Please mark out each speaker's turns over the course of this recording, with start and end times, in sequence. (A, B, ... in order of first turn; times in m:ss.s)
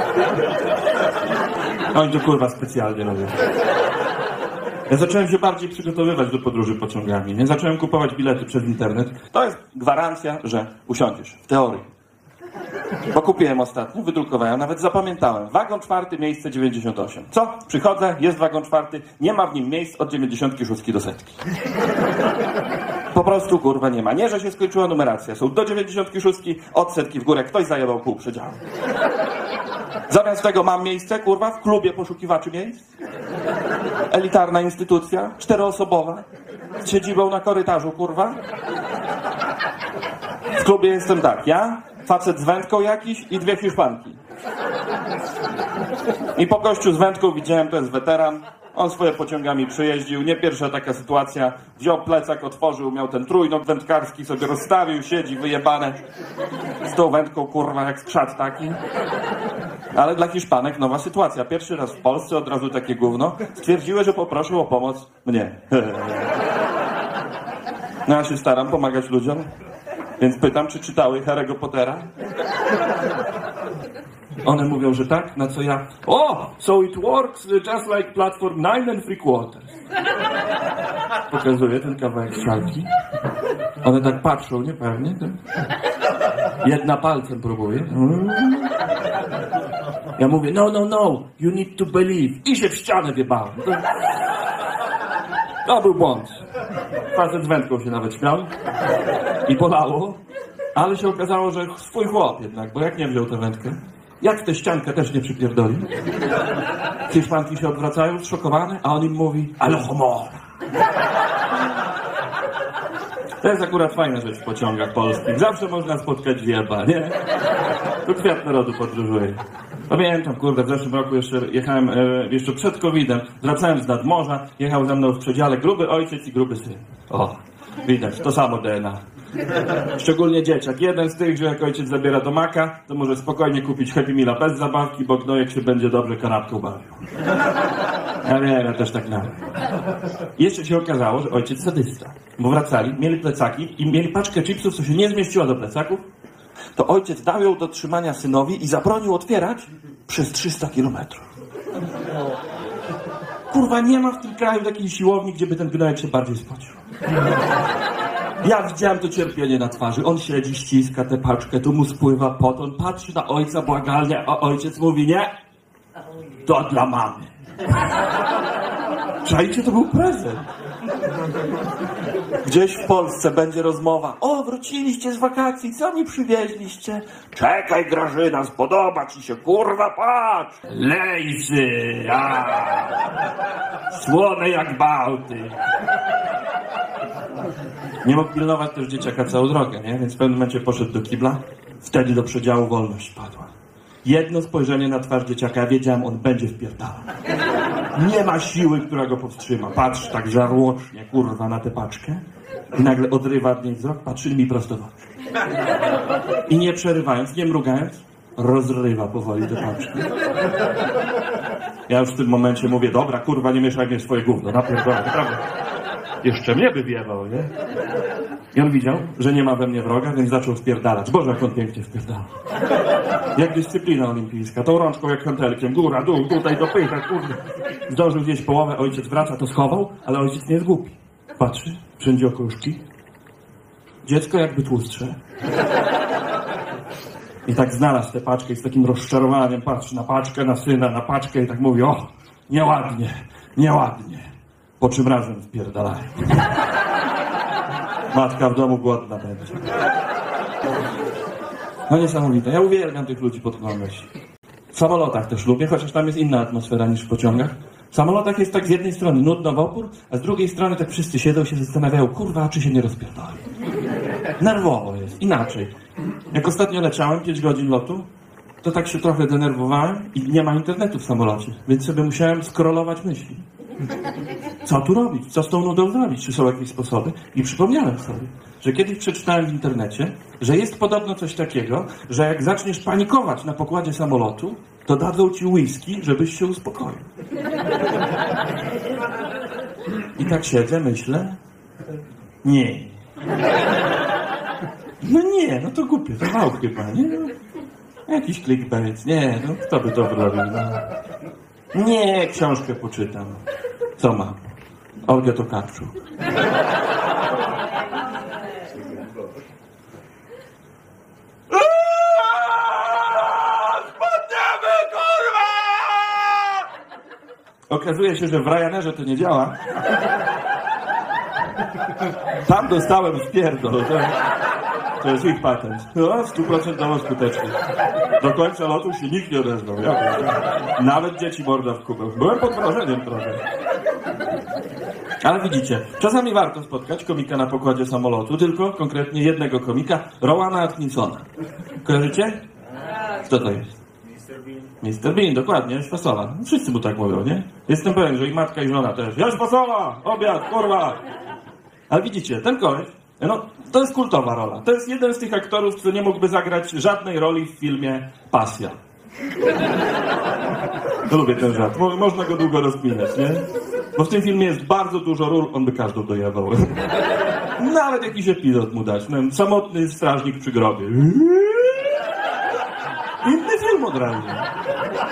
0:01.9-0:03.4 A
0:04.9-0:11.9 A
0:13.1-0:21.4 A
0:23.1-0:28.6 A
0:30.1-0:32.9 A
0:34.1-0:36.2 A
0:36.8-0:38.4 A
0:40.5-0:44.2 A
0:46.4-0:56.0 A
0:56.8-0:58.8 A
0:59.9-1:06.3 A
1:08.0-1:09.5 A
1:10.2-1:12.1 A
1:14.4-1:19.7 A
1:21.3-1:22.9 A
1:23.8-1:25.4 A
1:26.6-1:28.7 A
1:30.2-1:33.9 A
1:35.6-1:36.4 A
1:37.1-1:38.5 A
1:39.4-1:40.2 A
1:40.7-1:45.9 A
1:47.1-1:50.4 A
1:53.4-1:57.2 A
1:58.0-2:09.0 A
2:09.9-2:16.9 A
2:18.2-2:19.4 A
2:20.4-2:26.0 A
2:26.7-2:31.3 A
2:33.5-2:36.8 A
2:38.4-2:45.3 A
2:46.4-2:47.3 A
2:49.2-2:50.4 A
2:52.4-3:03.0 A
3:03.9-3:05.5 A
3:08.0-3:13.5 A
3:14.0-3:17.0 A
3:17.9-3:24.9 A
3:26.5-3:30.1 A
3:31.9-3:35.4 A
3:36.2-3:37.5 A
3:38.5-3:42.3 A
3:43.3-3:52.8 A
3:54.0-3:55.2 A
3:57.4-4:04.3 A
4:04.8-4:06.5 A
4:08.1-4:09.7 A
4:11.9-4:14.1 A
4:14.7-4:23.4 A
4:24.4-4:25.7 A
4:26.3-4:28.1 A
4:28.6-4:33.4 A
4:34.6-4:47.0 A
4:50.2-4:51.4 A
4:52.4-4:53.0 A
4:55.0-4:57.3 A
4:58.1-5:00.8 A
5:01.7-5:03.4 A
5:04.0-5:04.5 A
5:05.0-5:05.9 A
5:11.5-5:16.5 A
5:17.7-5:19.6 A
5:22.4-5:24.1 A
5:25.0-5:27.6 A
5:28.2-5:33.4 A
5:35.2-5:41.2 A
5:41.8-5:42.4 A
5:43.2-5:43.8 A
5:44.8-5:51.0 A
5:51.9-5:58.8 A
6:01.0-6:06.8 A
6:07.6-6:11.9 A
6:13.2-6:14.5 A